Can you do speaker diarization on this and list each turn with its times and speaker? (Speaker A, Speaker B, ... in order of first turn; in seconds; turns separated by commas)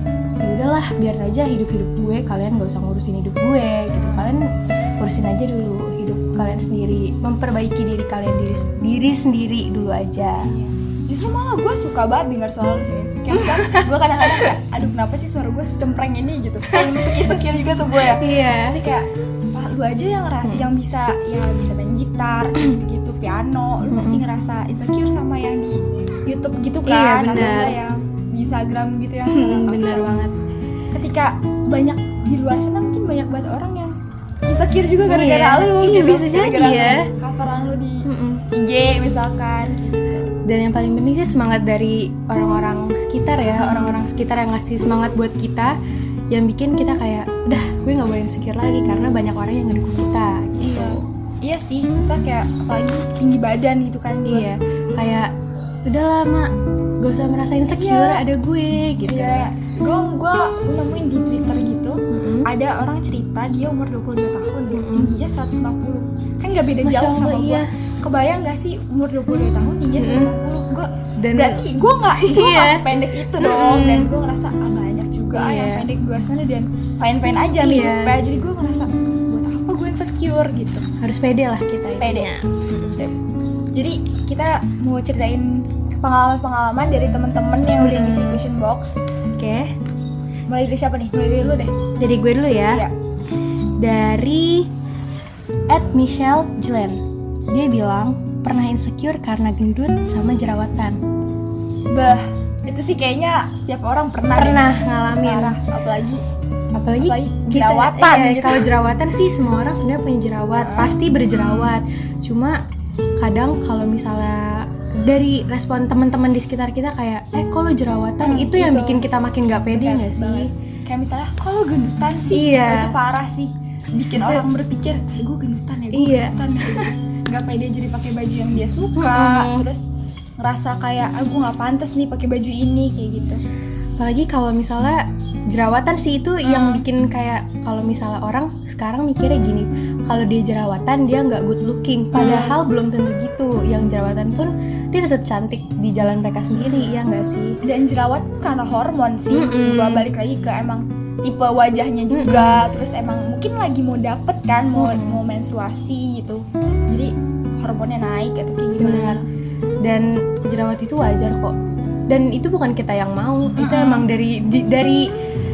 Speaker A: 0.4-10.5, Speaker B: 3.9-4.3, Speaker B: 10.4-30.1, Speaker A: 13.3-13.9, Speaker A: 16.7-17.3, Speaker A: 17.9-18.8, Speaker A: 23.9-24.2, Speaker A: 26.9-27.8, Speaker A: 29.3-30.3, Speaker B: 30.9-33.9, Speaker B: 34.5-40.3, Speaker A: 35.1-37.1, Speaker A: 38.0-38.4, Speaker A: 40.5-45.8, Speaker B: 43.6-44.0, Speaker A: 46.3-51.0, Speaker B: 50.6-54.5, Speaker A: 54.3-55.3, Speaker A: 55.9-59.5, Speaker B: 57.7-58.2, Speaker B: 59.1-80.9, Speaker A: 62.1-62.5, Speaker A: 64.7-65.2, Speaker A: 66.8-67.7, Speaker A: 70.0-70.3, Speaker A: 71.2-72.8, Speaker A: 73.4-74.1, Speaker A: 75.3-75.9, Speaker A: 77.6-78.2, Speaker A: 81.0-83.1, Speaker B: 82.0-83.1, Speaker B: 83.7-89.0, Speaker A: 87.8-88.4, Speaker A: 89.4-89.7, Speaker B: 90.5-91.7, Speaker A: 92.0-92.8, Speaker A: 93.8-94.7, Speaker A: 95.7-101.0, Speaker B: 101.9-104.7, Speaker A: 104.4-105.6, Speaker B: 105.2-106.2, Speaker A: 106.7-112.6, Speaker B: 107.0-108.7, Speaker B: 110.5-111.7, Speaker A: 113.2-120.5, Speaker B: 118.2-119.0, Speaker B: 119.7-129.8, Speaker A: 122.3-122.9, Speaker A: 125.9-126.9, Speaker A: 129.0-129.7, Speaker B: 130.4-133.4, Speaker A: 134.0-147.6, Speaker B: 136.4-136.8, Speaker B: 142.1-142.6, Speaker B: 146.5-147.0, Speaker B: 147.6-159.3, Speaker A: 149.3-150.1, Speaker A: 152.1-152.7, Speaker A: 154.8-155.2, Speaker A: 158.8-159.2, Speaker A: 159.8-161.6, Speaker A: 162.1-165.1, Speaker B: 163.6-164.1